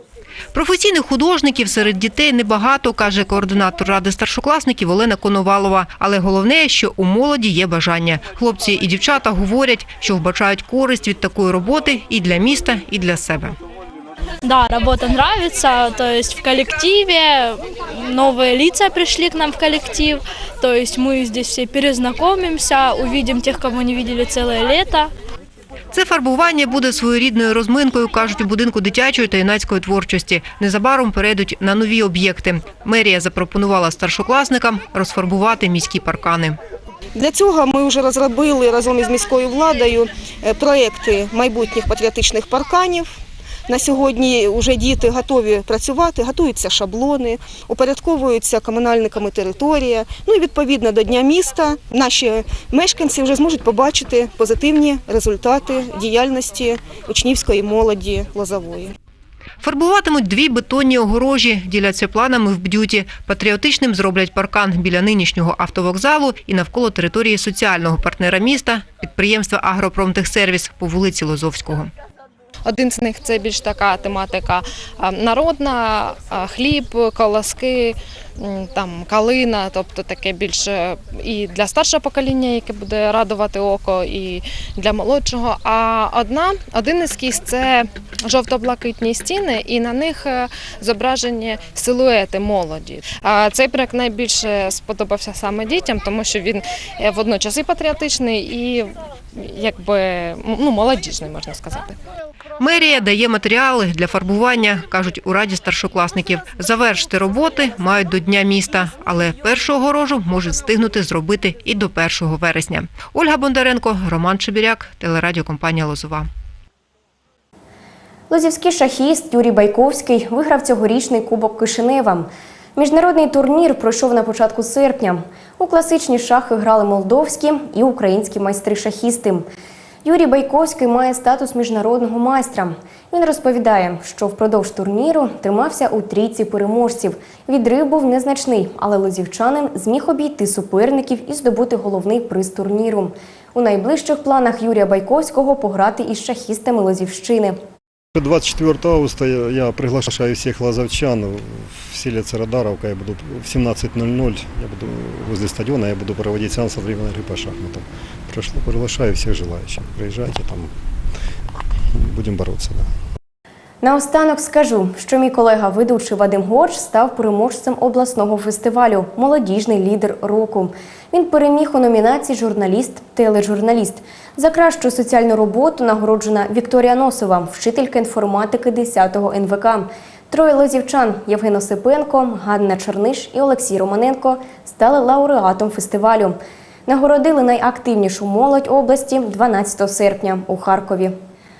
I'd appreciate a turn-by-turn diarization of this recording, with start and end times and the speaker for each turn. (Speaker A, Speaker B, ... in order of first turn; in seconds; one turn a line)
Speaker A: 0.5-13.6
Speaker B: 14.4-25.1
Speaker A: 25.9-36.6
Speaker C: 37.1-43.1
Speaker C: 43.7-58.9
Speaker A: 59.6-71.9
Speaker D: 72.6-102.0
Speaker A: 102.6-116.3
Speaker E: 118.3-129.4
Speaker E: 130.0-147.6
Speaker F: 148.1-160.7
Speaker F: 161.9-162.9
Speaker E: 163.8-191.1